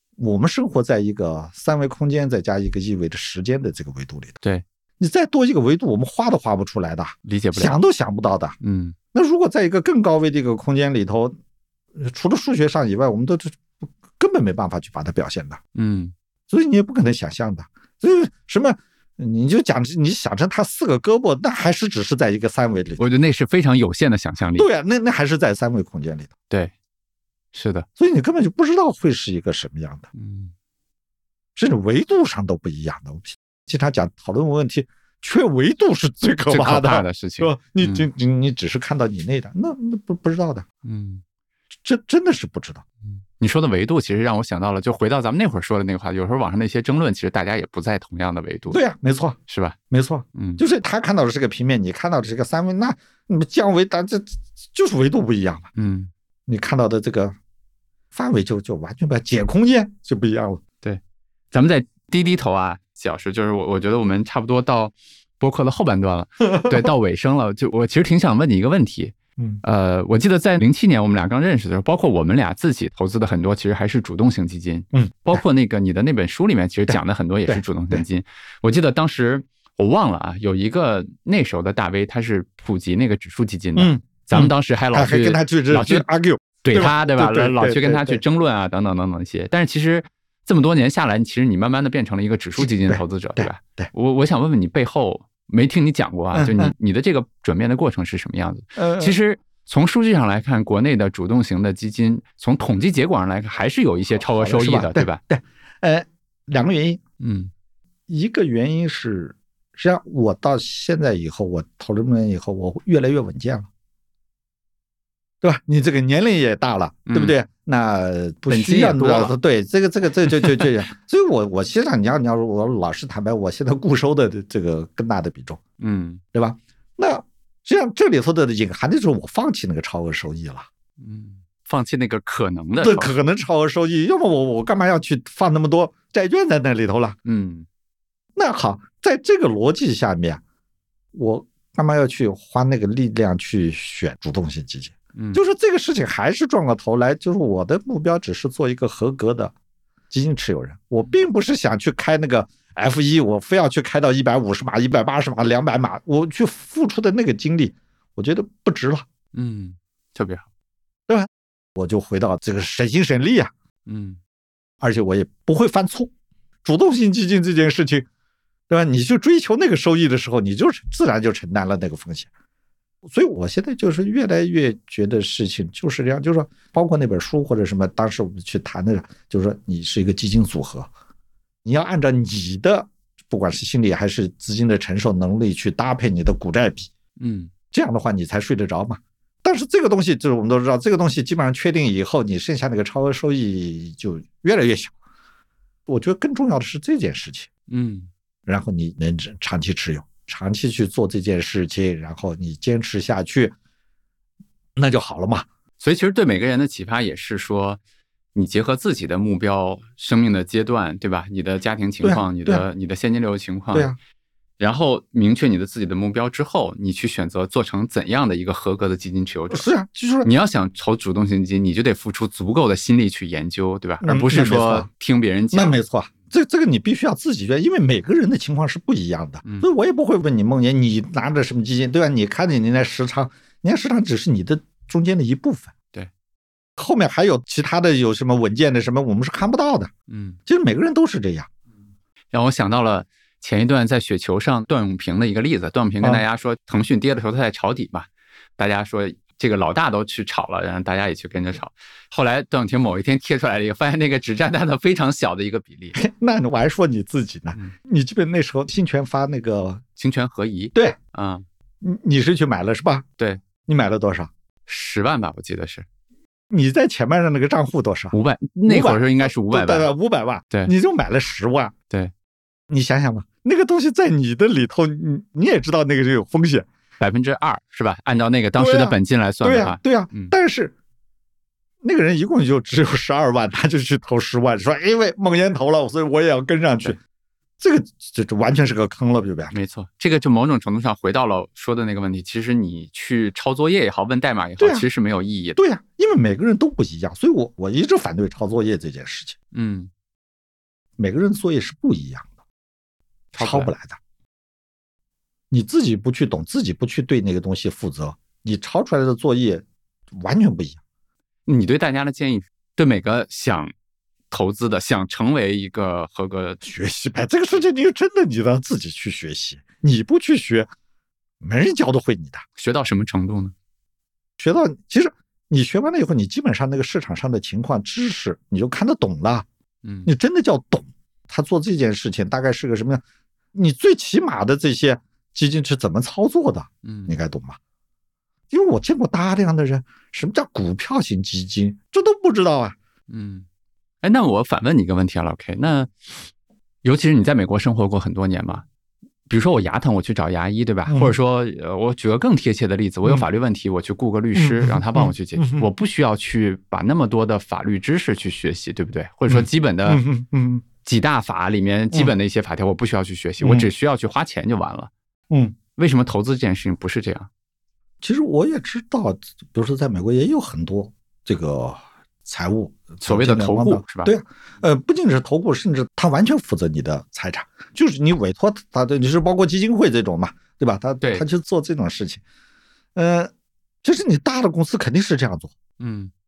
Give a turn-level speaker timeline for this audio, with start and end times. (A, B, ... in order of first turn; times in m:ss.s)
0:00.2-0:04.4 A
0:05.0-0:08.6 A
0:07.2-0:07.8 B
0:08.6-0:09.0 B
0:09.1-0:11.4 A
0:12.0-0:15.6 A
0:15.8-0:16.1 B
0:16.5-0:23.0 A
0:23.0-0:24.7 B
0:24.6-0:26.3 A
0:27.5-0:27.9 B
0:28.0-0:30.1 A
0:30.1-0:30.5 B
0:31.6-0:40.7 A
0:36.5-0:38.1 B
0:40.8-0:41.2 B
0:41.8-0:42.8 A
0:43.1-0:48.8 B
0:48.7-0:49.4 A
0:49.5-0:49.8 B
0:49.9-0:55.7 A
0:50.4-0:50.6 B
0:55.8-0:56.1 B
0:56.5-0:57.4 A
0:58.1-1:00.6 A
1:01.5-1:26.0 B
1:06.6-1:06.8 A
1:14.9-1:15.4 A
1:16.9-1:18.0 A
1:23.8-1:28.2 A
1:26.6-1:45.2 B
1:32.6-1:33.9 A
1:36.3-1:36.7 A
1:38.8-1:39.2 A
1:44.2-1:47.0 A
1:47.2-1:47.5 B
1:48.1-1:53.7 A
1:55.4-2:05.6 A
1:57.1-1:57.4 B
1:58.5-1:59.3 B
2:00.3-2:00.7 B
2:05.8-2:06.2 B
2:06.3-2:10.7 A
2:11.0-2:13.1 B
2:12.8-2:17.2 A
2:17.2-2:17.7 B
2:18.4-2:20.4 A
2:21.1-2:29.5 A
2:25.2-2:25.4 B
2:30.1-2:39.1 A
2:39.3-2:40.5 B
2:41.1-2:43.5 A
2:43.9-2:44.2 B
2:44.8-2:46.1 A
2:46.6-2:48.1 A
2:48.7-2:52.3 A
2:53.0-3:00.9 A
3:01.6-3:06.9 A
3:07.2-3:07.5 B
3:07.7-3:14.9 A
3:15.9-3:17.5 A
3:17.7-3:18.1 B
3:18.5-3:23.6 A
3:24.8-3:25.5 A
3:25.8-3:27.8 B
3:28.4-3:33.9 B
3:32.0-3:32.7 A
3:34.6-3:39.7 B
3:39.5-3:40.3 A
3:40.2-3:45.8 B
3:44.0-3:44.9 A
3:45.5-3:55.7 A
3:56.8-3:59.9 A
4:00.1-4:00.4 B
4:00.5-4:01.5 A
4:02.3-4:08.1 B
4:08.6-4:16.0 B
4:16.0-4:19.8 A
4:20.0-4:21.4 B
4:21.8-4:23.0 A
4:23.7-4:24.3 A
4:24.7-4:25.9 B
4:26.5-4:28.2 A
4:28.1-4:29.9 B
4:28.7-4:31.7 A
4:32.7-4:36.7 A
4:37.0-4:40.3 B
4:38.6-4:40.7 A
4:41.8-4:47.0 A
4:47.6-4:49.6 A
4:49.5-4:55.6 B
4:54.6-4:54.9 A
4:55.6-4:59.4 A
4:59.5-4:59.9 B
5:01.0-5:02.3 A
5:03.3-5:03.7 B
5:03.4-5:04.0 A
5:05.5-5:10.8 A
5:11.5-5:13.7 B
5:14.3-5:16.6 B
5:16.6-5:20.7 A
5:21.4-5:22.4 A
5:22.6-5:23.5 B
5:24.4-5:29.5 A
5:29.8-5:30.1 B
5:30.1-5:33.0 A
5:33.5-5:37.6 A
5:36.8-5:37.2 B
5:38.5-5:42.8 A
5:43.1-5:43.5 B
5:44.0-5:45.9 B
5:46.8-5:48.6 B
5:49.3-6:00.0 B
5:50.9-5:51.2 A
5:54.4-5:55.7 A
5:59.3-6:00.6 A
6:00.8-6:04.9 B
6:03.4-6:03.7 A
6:05.3-6:05.6 A
6:05.8-6:07.3 B
6:08.0-6:22.2 A
6:13.0-6:14.2 B
6:21.0-6:21.3 B
6:23.0-6:23.3 A
6:23.8-6:25.5 A
6:25.8-6:26.1 B